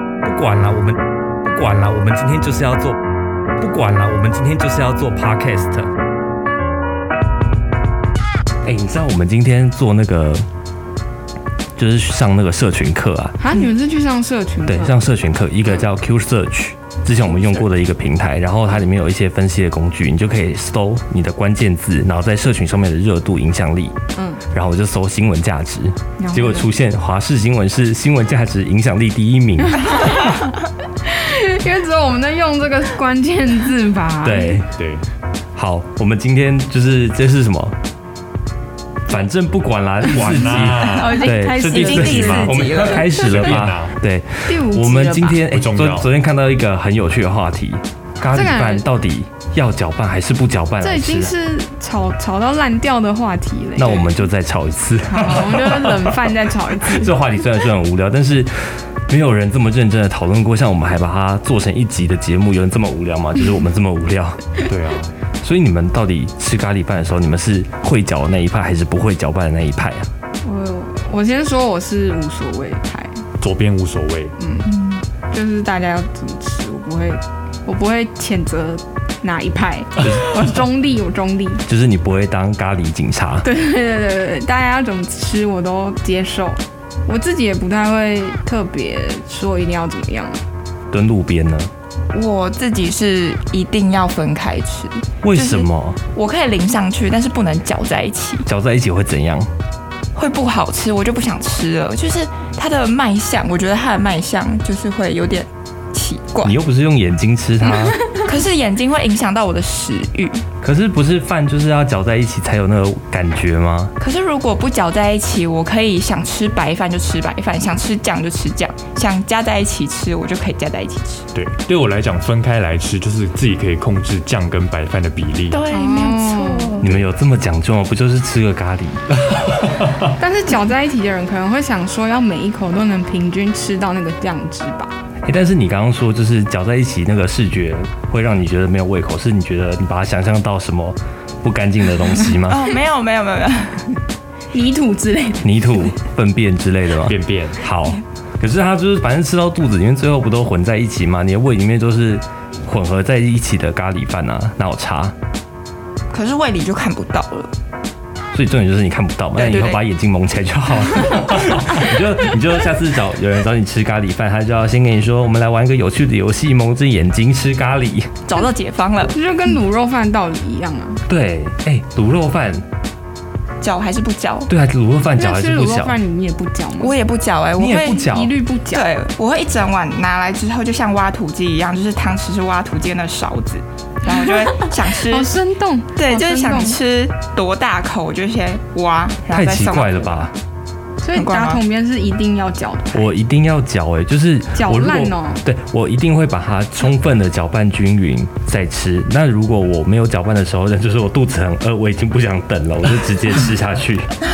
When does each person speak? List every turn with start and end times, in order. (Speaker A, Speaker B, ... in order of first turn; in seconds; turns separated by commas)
Speaker A: 0.2-3.0, Speaker A: 3.6-5.9, Speaker A: 8.6-10.4, Speaker A: 11.8-13.4, Speaker B: 13.4-15.0, Speaker A: 14.7-24.0, Speaker B: 24.1-24.4, Speaker A: 24.5-29.9, Speaker B: 26.2-26.7, Speaker B: 29.7-30.5, Speaker B: 31.0-34.6, Speaker A: 34.2-34.7, Speaker C: 34.8-35.0, Speaker A: 35.5-37.8, Speaker A: 39.1-51.3, Speaker C: 40.1-44.0, Speaker D: 40.6-43.5, Speaker B: 44.5-45.4, Speaker C: 45.5-46.1, Speaker B: 48.3-48.9, Speaker B: 50.8-54.2, Speaker A: 53.8-56.2, Speaker B: 55.0-57.1, Speaker A: 56.8-64.6, Speaker C: 64.7-65.1, Speaker A: 65.4-70.1, Speaker B: 70.4-73.2, Speaker C: 73.4-74.3, Speaker B: 74.4-74.7, Speaker D: 74.7-75.0, Speaker B: 75.3-81.7, Speaker A: 80.0-80.5, Speaker A: 81.7-83.5, Speaker B: 83.4-90.4, Speaker A: 90.9-91.7, Speaker D: 92.1-98.5, Speaker A: 95.2-96.0, Speaker A: 98.5-99.5, Speaker D: 100.2-106.6, Speaker A: 106.4-108.0, Speaker D: 108.2-110.5, Speaker A: 110.6-113.9, Speaker D: 114.0-121.3, Speaker C: 121.3-125.6, Speaker D: 125.5-126.9, Speaker B: 125.7-126.8, Speaker A: 126.8-129.1, Speaker B: 130.2-134.9, Speaker A: 135.2-142.7, Speaker D: 142.5-144.0, Speaker B: 144.5-145.8, Speaker A: 145.4-155.1, Speaker C: 147.0-147.6, Speaker D: 156.1-157.5, Speaker A: 158.3-168.2, Speaker D: 159.3-159.8, Speaker D: 168.3-169.2, Speaker B: 169.1-171.0, Speaker A: 171.1-172.7, Speaker D: 173.6-174.5, Speaker A: 174.5-176.0, Speaker B: 175.2-177.0, Speaker D: 176.8-178.1, Speaker A: 177.6-178.3, Speaker B: 178.0-178.9, Speaker D: 178.7-185.3, Speaker B: 184.4-186.8, Speaker D: 186.0-190.3, Speaker A: 189.3-190.3, Speaker B: 191.0-193.1, Speaker D: 191.2-191.6, Speaker A: 192.9-204.1, Speaker B: 194.5-195.4